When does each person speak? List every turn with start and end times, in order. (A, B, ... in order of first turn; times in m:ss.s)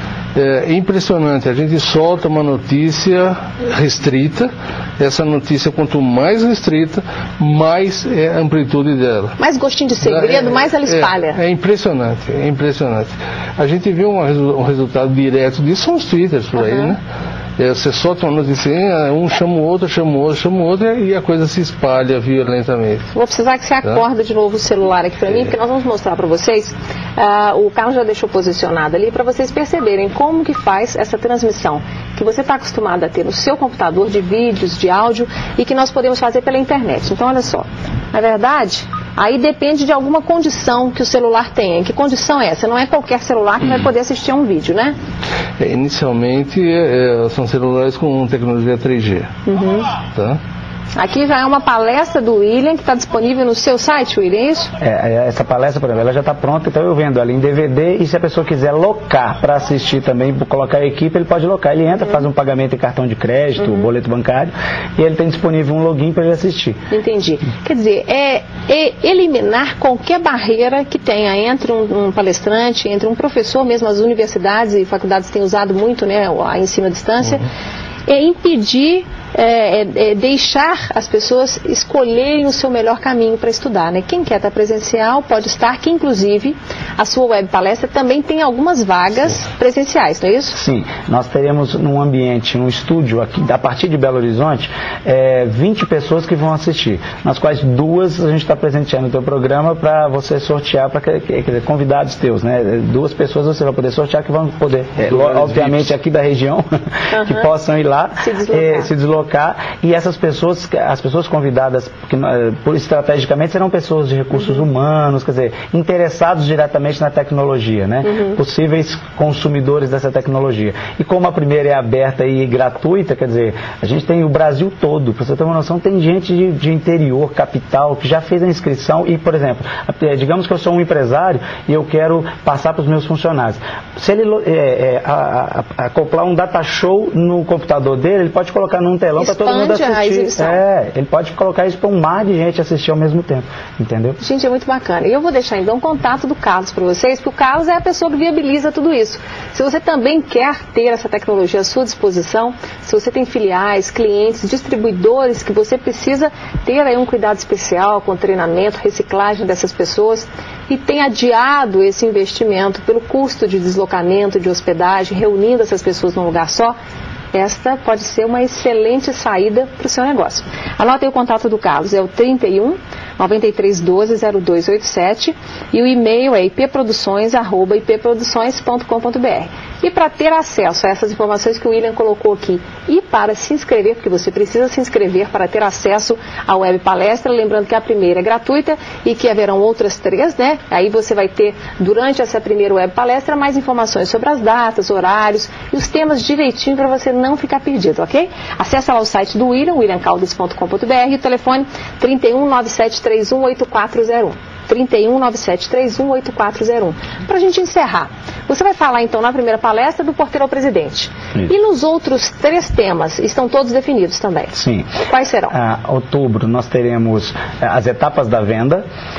0:00.4-0:09.4 A
0:09.4-0:11.4 B
0:10.0-0:17.0 A
0:16.6-0:16.9 B
0:17.6-0:23.1 A
0:23.1-0:45.0 B
0:45.6-0:49.3 A
0:49.5-0:49.9 B
0:50.1-0:50.4 A
0:51.0-0:54.7 B
0:54.8-1:06.8 C
1:03.6-1:03.9 B
1:06.9-1:17.5 B
1:18.1-1:30.6 B
1:30.5-1:46.6 C
1:45.0-1:45.9 A
1:47.1-1:47.5 B
1:47.2-2:24.2 C
1:48.2-1:48.9 B
1:54.4-1:54.6 B
1:58.0-1:58.4 B
2:19.2-2:20.6 B
2:24.2-2:46.8 B
2:47.3-3:35.6 B
3:34.5-3:34.9 C
3:35.5-3:38.8 C